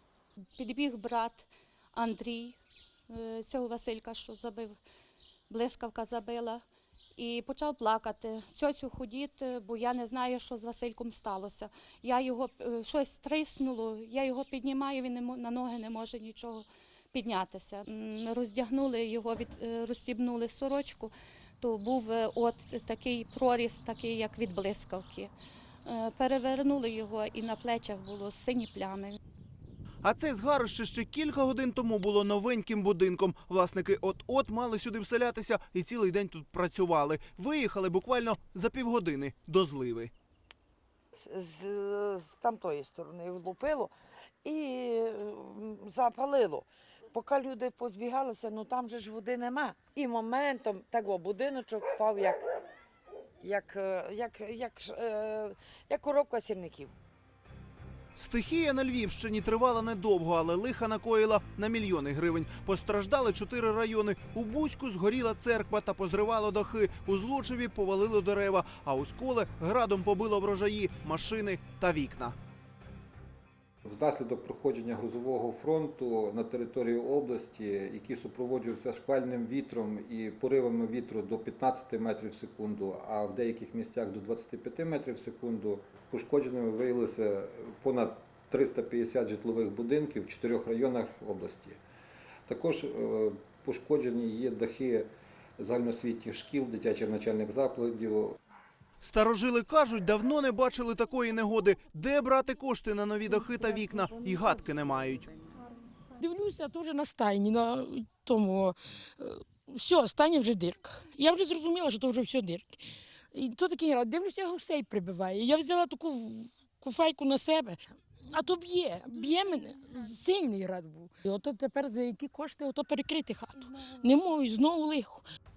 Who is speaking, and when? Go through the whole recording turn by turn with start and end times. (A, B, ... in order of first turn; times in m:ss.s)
0:00.6-0:02.6 A
0:03.1-0:04.8 A
0:05.5-0:06.6 A
0:07.2-0:25.3 A
0:25.8-0:29.2 A
0:30.0-0:40.1 B
0:41.1-0:43.9 C
0:44.4-0:52.5 C
0:53.4-0:56.9 C
0:58.1-1:12.3 B
1:13.8-1:31.8 D
1:32.5-1:38.4 D
1:39.0-1:45.3 B
1:46.2-1:52.8 E
1:53.3-2:05.2 E